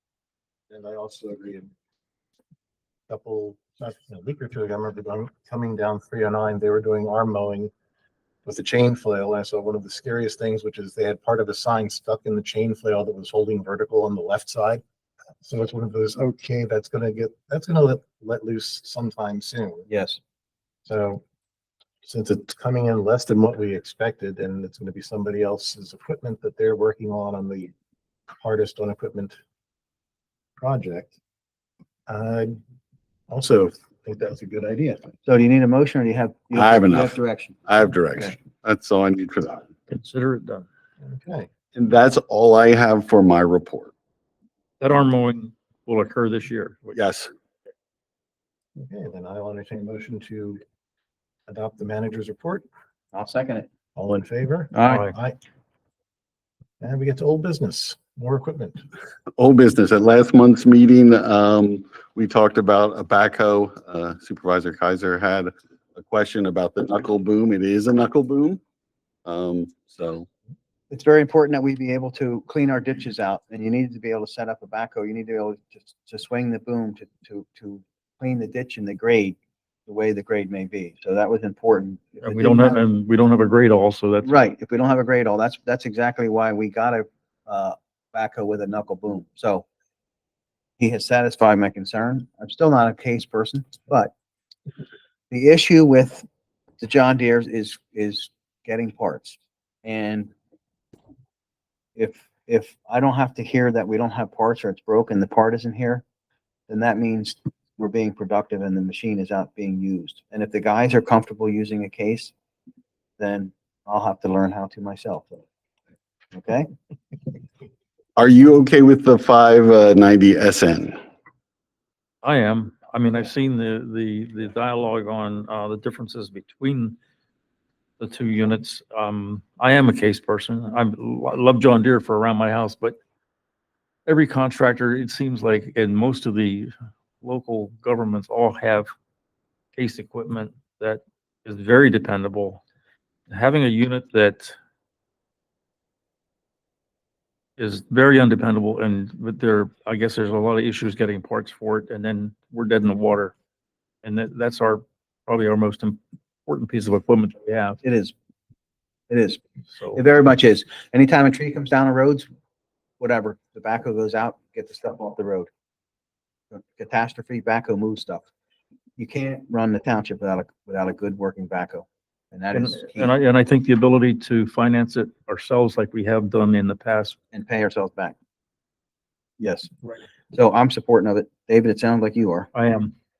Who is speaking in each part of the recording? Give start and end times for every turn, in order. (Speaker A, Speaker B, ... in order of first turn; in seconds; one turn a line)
Speaker A: 0.7-1.7
Speaker A: 3.1-7.7
Speaker A: 8.4-14.8
Speaker A: 15.4-19.9
Speaker B: 19.9-20.2
Speaker A: 20.9-21.2
Speaker A: 22.0-27.7
Speaker A: 28.4-29.4
Speaker A: 30.6-31.1
Speaker A: 32.1-32.6
Speaker A: 33.3-35.0
Speaker B: 35.2-38.3
Speaker C: 36.5-39.7
Speaker D: 39.9-40.6
Speaker A: 41.0-41.5
Speaker C: 41.7-43.9
Speaker D: 44.8-47.0
Speaker C: 46.9-47.3
Speaker A: 48.8-50.6
Speaker A: 51.5-52.6
Speaker B: 53.1-53.7
Speaker A: 54.0-55.4
Speaker B: 54.7-55.0
Speaker D: 54.9-55.1
Speaker A: 56.8-58.8
Speaker C: 59.4-68.6
Speaker C: 69.2-70.3
Speaker B: 70.9-82.8
Speaker D: 82.2-84.3
Speaker B: 84.2-89.7
Speaker B: 90.8-94.1
Speaker B: 95.3-96.2
Speaker B: 96.8-100.3
Speaker B: 102.0-106.0
Speaker B: 106.7-112.3
Speaker B: 113.2-115.4
Speaker B: 116.3-116.7
Speaker C: 118.2-121.0
Speaker D: 122.2-127.0
Speaker D: 128.0-133.0
Speaker D: 134.1-138.9
Speaker D: 139.8-142.6
Speaker D: 143.3-144.6
Speaker D: 147.6-153.3
Speaker D: 154.0-157.8
Speaker B: 157.8-158.1
Speaker B: 159.1-159.4
Speaker D: 159.7-160.0
Speaker B: 159.9-162.3
Speaker B: 163.0-165.5
Speaker B: 166.5-168.3
Speaker B: 169.0-173.1
Speaker D: 172.5-177.2
Speaker B: 177.3-178.2
Speaker B: 179.4-179.7
Speaker B: 180.3-182.5
Speaker D: 182.5-182.9